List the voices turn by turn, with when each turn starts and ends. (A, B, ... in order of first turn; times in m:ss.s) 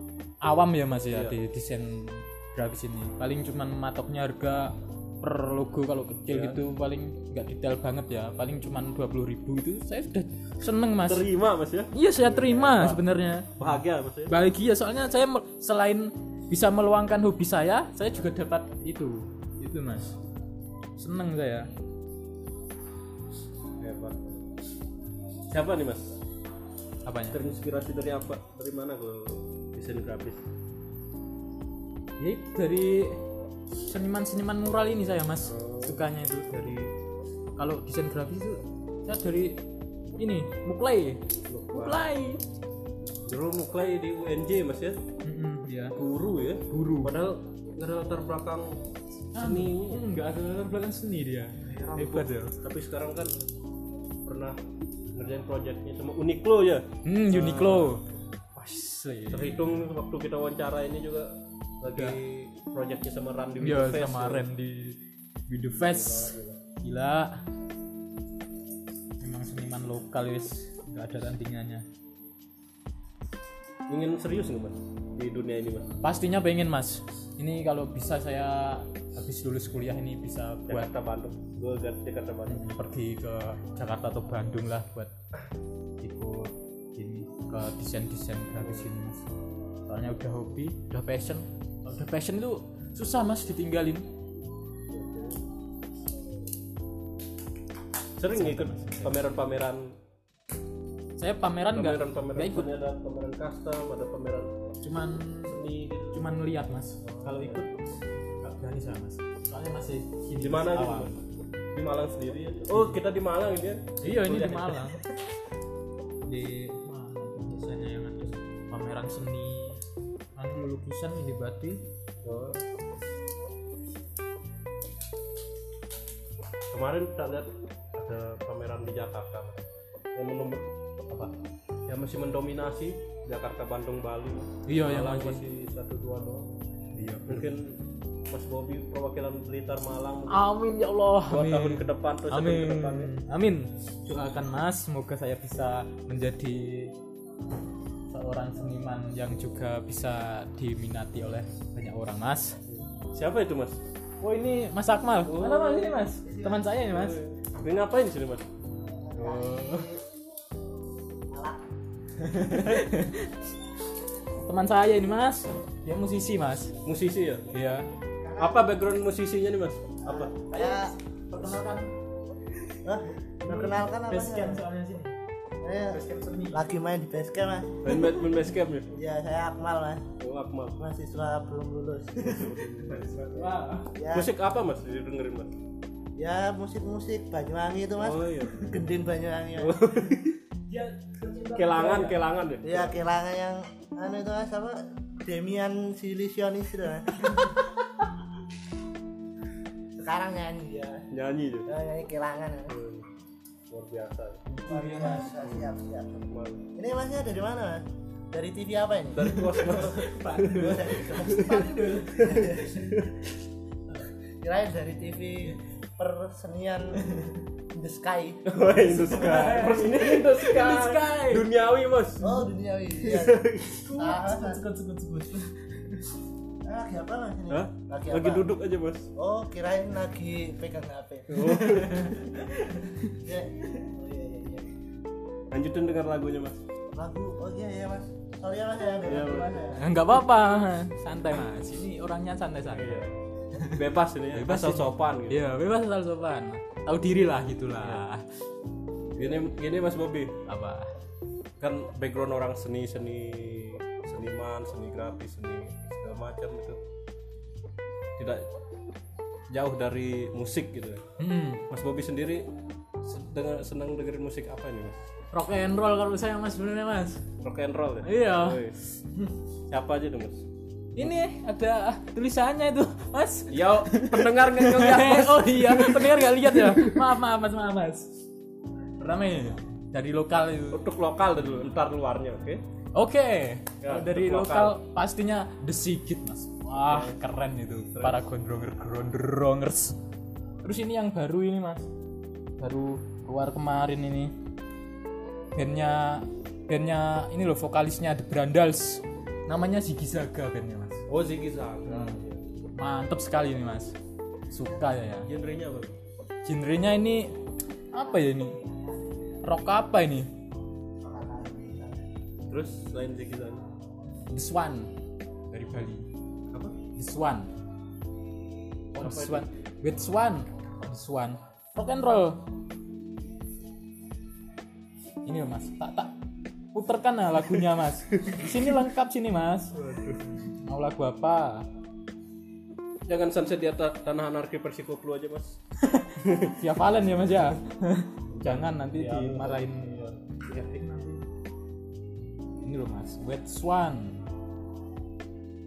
0:00.4-0:11.3 A
0:01.1-0:01.4 B
0:06.3-0:06.6 B
0:11.1-0:13.0 B
0:11.9-0:20.1 A
0:13.6-0:14.3 B
0:21.0-0:21.7 A
0:23.8-0:24.3 B
0:25.5-0:26.1 B
0:27.0-0:27.4 A
0:27.3-0:30.4 B
0:32.2-0:33.2 A
0:33.9-0:36.9 A
0:35.5-0:36.0 B
0:37.6-0:39.6 A
0:40.2-0:42.4 A
0:41.5-0:42.1 B
0:43.3-0:45.0 B
0:45.2-0:46.0 A
0:46.0-0:48.8 B
0:46.7-0:47.1 A
0:49.3-0:52.6 A
0:49.4-0:50.0 B
0:51.7-0:53.4 B
0:54.2-0:54.6 B
0:55.1-0:58.0 B
0:57.0-0:58.0 A
0:58.6-0:59.8 A
0:59.3-1:04.5 B
1:01.9-1:02.2 A
1:03.6-1:07.4 A
1:05.9-1:06.6 B
1:09.2-1:11.9 A
1:13.9-1:15.9 B
1:16.0-1:20.9 A
1:20.7-1:22.7 B
1:22.5-1:25.1 A
1:26.0-1:29.2 A
1:28.6-1:28.9 B
1:29.9-1:34.1 A
1:34.9-1:35.4 B
1:38.2-1:40.0 B
1:38.3-1:39.2 A
1:41.2-1:42.7 A
1:41.8-1:44.5 B
1:44.8-1:45.6 A
1:45.5-1:46.2 B
1:46.1-1:47.7 A
1:47.0-1:47.6 B
1:48.3-1:51.2 A
1:50.4-1:51.2 B
1:51.7-1:55.0 B
1:54.0-1:55.0 A
1:56.3-1:59.8 A
2:00.4-2:01.8 A
2:02.2-2:02.6 B
2:06.7-2:09.6 B
2:10.2-2:11.3 B
2:11.9-2:16.5 B
2:14.7-2:15.4 A
2:17.0-2:17.5 A
2:17.3-2:17.8 B
2:18.3-2:20.4 B
2:20.3-2:26.9 A
2:21.3-2:23.1 B
2:28.1-2:32.6 A
2:32.7-2:33.8 B
2:34.2-2:37.2 A
2:35.2-2:36.1 B
2:36.3-2:36.7 C
2:36.8-2:38.5 B
2:39.0-2:40.0 C
2:39.2-2:39.9 A
2:41.3-2:41.6 C
2:42.2-2:43.4 A
2:44.4-2:46.7 A
2:46.8-2:47.5 B
2:47.5-2:47.9 A
2:48.2-2:48.6 C
2:48.4-2:50.3 B
2:50.0-2:50.9 C
2:50.5-2:51.9 A
2:52.8-2:54.6 C
2:53.4-2:55.2 A
2:55.6-2:58.0 C
2:55.9-2:56.7 A
2:57.8-2:58.9 B
2:58.9-3:00.1 C
3:00.2-3:00.8 B
3:00.8-3:02.6 C
3:02.2-3:03.1 B
3:02.8-3:03.9 A
3:03.9-3:04.3 C
3:04.1-3:05.5 B
3:06.2-3:10.0 C
3:08.0-3:08.8 B
3:09.6-3:10.4 B
3:10.7-3:12.2 A
3:11.6-3:13.0 B
3:12.6-3:17.6 C
3:20.0-3:21.1 C
3:21.1-3:21.7 B
3:21.7-3:22.8 C
3:22.7-3:23.1 B
3:23.7-3:24.4 B
3:24.5-3:25.4 A
3:24.6-3:32.8 C
3:26.3-3:26.6 B
3:29.1-3:33.2 B
3:29.3-3:32.9 A
3:34.4-3:37.0 C
3:37.7-3:39.2 C
3:38.4-3:42.4 B
3:38.9-3:41.5 A
3:42.2-3:44.6 C
3:43.0-3:43.8 B
3:43.8-3:46.0 A
3:46.6-3:48.5 C
3:47.5-3:49.1 B
3:49.2-3:51.9 C
3:51.3-3:52.2 B
3:51.3-3:52.4 A
3:53.1-3:54.7 C
3:55.5-3:56.6 B
3:57.0-3:59.9 C
3:59.0-3:59.7 B
3:59.7-4:08.2 A
4:02.7-4:03.2 B
4:03.7-4:05.4 B
4:09.2-4:10.4 B
4:10.5-4:10.9 A
4:11.6-4:16.8 B
4:18.2-4:18.5 B
4:19.5-4:21.0 B
4:21.2-4:21.6 A
4:21.7-4:22.5 B
4:23.0-4:25.0 B
4:25.3-4:27.2 A
4:27.4-4:28.8 B
4:28.0-4:29.3 A
4:29.7-4:30.4 B
4:31.0-4:38.2 A
4:33.5-4:37.0 B
4:39.0-4:40.8 A
4:40.7-4:42.6 B
4:42.9-4:50.0 A
4:43.8-4:44.8 B
4:46.8-4:47.2 B
4:47.9-4:48.2 B
4:50.6-4:51.9 A
4:52.6-4:54.3 A
4:55.6-5:01.0 A
5:01.1-5:02.4 B
5:01.9-5:02.2 A
5:02.8-5:04.0 A
5:04.5-5:05.3 A
5:05.3-5:06.0 B
5:06.4-5:07.4 A
5:07.9-5:08.6 A
5:09.4-5:10.3 A
5:11.0-5:12.0 C
5:12.5-5:13.6 B
5:14.3-5:14.9 A
5:15.5-5:16.1 A
5:17.0-5:17.5 A
5:19.0-5:22.4 A
5:19.0-5:19.5 B
5:25.3-5:26.1 A
5:26.7-5:29.8 A
5:29.8-5:30.6 B
5:30.6-5:31.7 A
5:33.1-5:35.6 B
5:35.8-5:41.3 A
5:36.2-5:36.6 B
5:38.3-5:39.8 B
5:42.6-5:44.2 A